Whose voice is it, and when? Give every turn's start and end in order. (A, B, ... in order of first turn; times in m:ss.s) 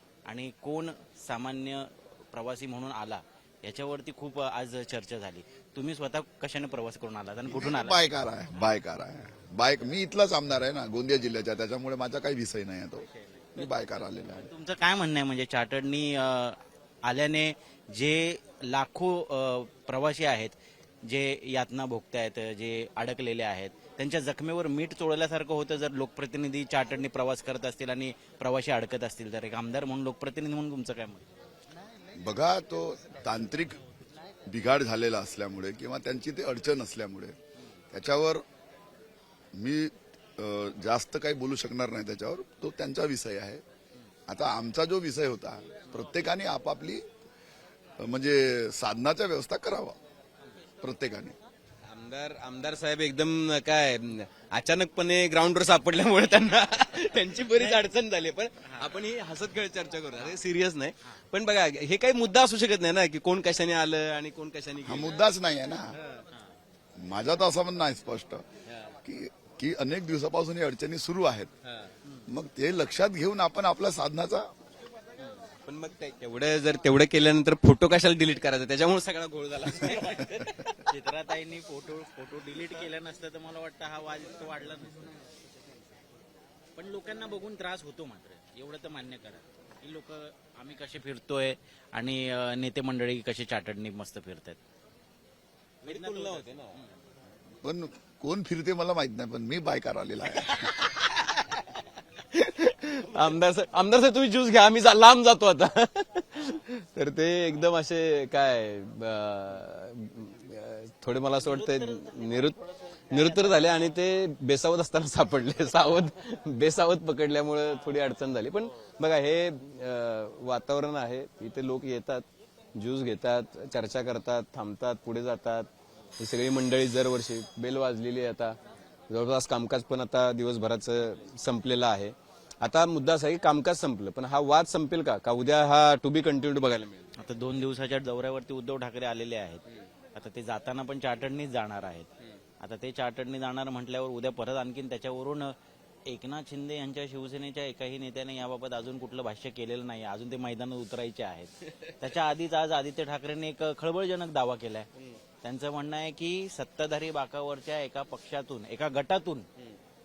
0:00.3-0:07.9 A
0:07.4-0:14.5 B
0:14.5-0:16.5 A
0:17.1-0:20.5 A
0:21.1-0:31.2 A
0:32.1-0:33.8 B
0:34.4-0:37.4 B
0:37.9-0:38.4 B
0:39.5-0:43.6 B
0:44.3-0:47.0 B
0:48.0-0:50.0 B
0:50.8-0:51.4 B
0:51.9-1:05.1 C
1:04.8-1:06.0 B
1:07.0-1:08.4 B
1:09.0-1:11.5 B
1:12.3-1:14.5 B
1:15.6-1:20.6 C
1:20.9-1:24.9 A
1:26.8-1:30.2 A
1:30.8-1:34.6 A
1:35.8-1:36.8 C
1:37.6-1:40.9 B
1:42.4-1:52.6 C
1:53.1-2:08.6 C
2:09.1-2:17.1 C
2:17.2-2:19.6 A
2:20.2-2:22.1 A
2:22.6-2:25.5 A
2:26.1-2:31.5 A
2:31.8-2:32.1 C
2:32.1-2:34.9 A
2:35.4-2:39.4 A